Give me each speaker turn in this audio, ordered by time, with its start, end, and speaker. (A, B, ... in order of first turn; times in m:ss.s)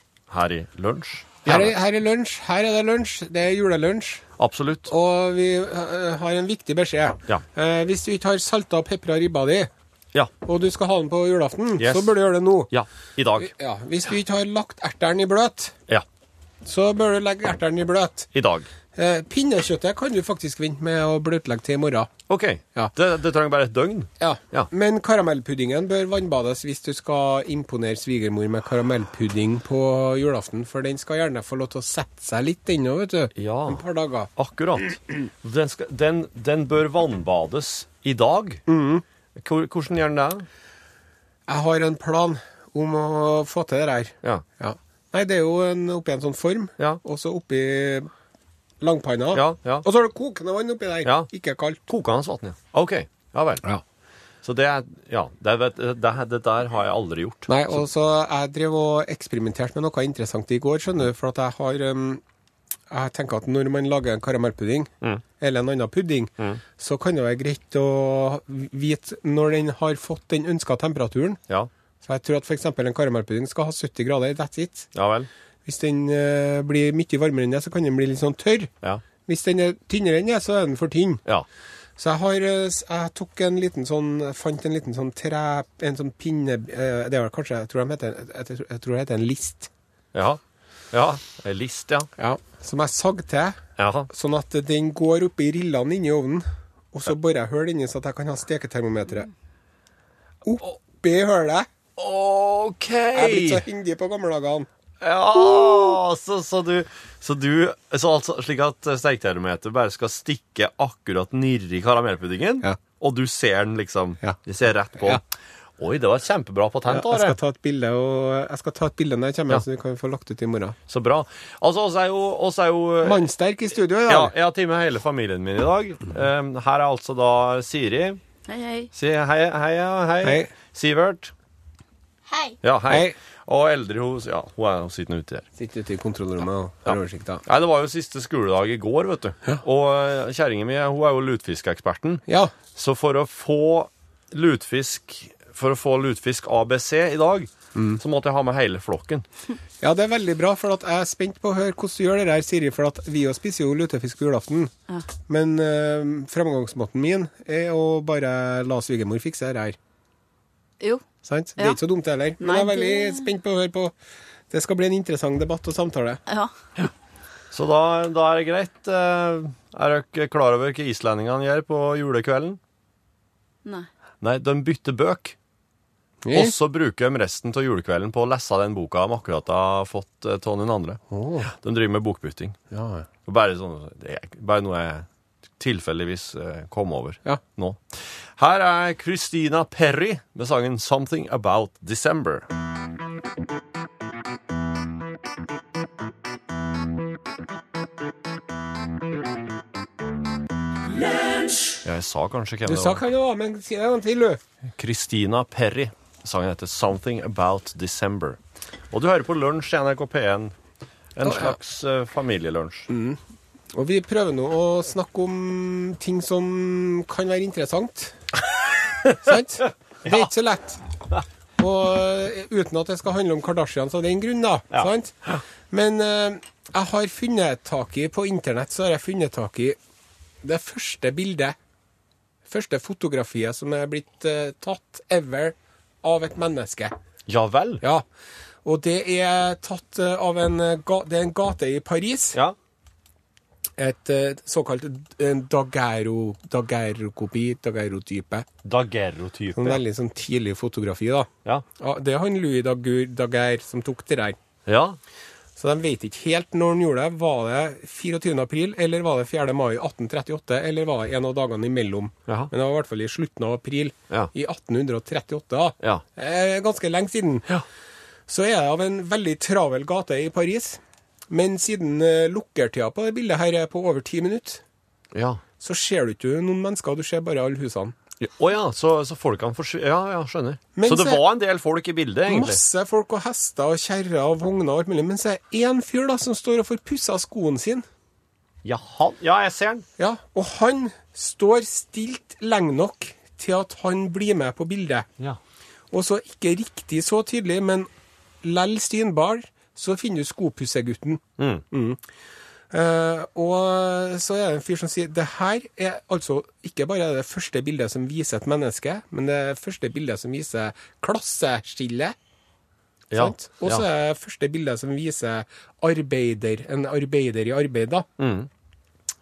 0:00.3-0:01.7 A
0:01.4-0:04.2 B
0:04.4-0:04.9 A
0:04.9-0:09.7 B
0:10.4-0:12.7 B
0:11.8-0:12.1 A
0:12.7-0:13.5 A
0:13.4-0:15.8 B
0:16.6-0:18.3 B
0:18.3-0:18.7 A
0:18.9-0:22.1 B
0:22.3-0:24.7 A
0:24.2-0:34.3 B
0:33.4-0:33.8 A
0:34.4-0:38.6 A
0:38.7-0:39.0 B
0:39.3-0:40.4 A
0:41.5-0:48.1 B
0:48.8-0:51.8 B
0:49.3-0:49.8 A
0:51.9-0:53.7 A
0:54.4-0:57.6 A
0:57.5-1:02.2 B
1:02.9-1:11.4 B
1:12.0-1:14.9 B
1:14.9-1:15.3 A
1:15.6-1:18.7 B
1:19.2-1:21.2 B
1:22.0-1:29.7 B
1:30.1-1:30.4 A
1:30.9-1:32.1 A
1:32.2-1:39.3 B
1:33.8-1:34.1 A
1:40.4-1:41.7 B
1:42.0-1:43.6 A
1:43.1-1:44.7 B
1:45.0-1:55.2 A
1:55.8-1:57.4 A
1:56.8-2:00.8 B
2:00.9-2:03.2 A
2:03.0-2:04.3 B
2:04.1-2:08.2 A
2:08.5-2:08.9 C
2:08.9-2:11.3 A
2:10.2-2:10.5 B
2:12.6-2:15.4 A
2:12.9-2:13.1 B
2:15.6-2:17.4 B
2:16.9-2:22.2 A
2:22.3-2:22.5 B
2:22.7-2:29.2 A
2:27.7-2:28.0 B
2:29.8-2:34.7 B
2:35.3-2:39.8 B
2:41.2-2:43.9 B
2:42.4-2:43.3 C
2:44.5-2:46.2 B
2:46.3-2:46.9 C
2:47.5-2:52.6 A
2:54.2-2:55.3 A
2:56.2-2:56.5 B
2:56.3-3:01.0 A
3:01.1-3:01.5 B
3:01.5-3:02.6 A
3:02.7-3:03.0 B
3:03.2-3:05.0 A
3:05.6-3:07.8 A
3:08.4-3:12.5 A
3:21.8-3:23.0 A
3:22.6-3:24.4 B
3:24.8-3:28.4 A
3:28.9-3:30.5 A
3:31.2-3:32.9 A
3:31.2-3:31.5 B
3:32.9-3:33.2 B
3:33.7-3:38.2 B
3:39.2-3:40.8 B
3:41.6-3:49.8 B
3:50.4-3:51.5 B
3:52.4-3:57.0 B
3:57.3-3:57.8 A
3:57.8-3:58.0 B
3:58.6-4:02.4 B
4:03.8-4:08.5 B
4:08.6-4:09.8 A
4:09.6-4:14.4 B
4:14.7-4:15.0 A
4:15.6-4:27.6 B
4:28.3-4:34.6 B
4:35.1-4:35.4 A
4:35.6-4:38.0 B
4:38.2-4:42.6 A
4:40.8-4:41.2 B
4:42.3-4:47.8 B
4:48.6-4:49.8 A
4:50.0-4:55.1 B
4:55.9-4:57.9 B
4:58.4-5:02.0 B
5:01.4-5:01.6 A
5:02.7-5:12.2 B
5:13.1-5:13.8 A
5:13.1-5:18.1 B
5:18.2-5:18.5 A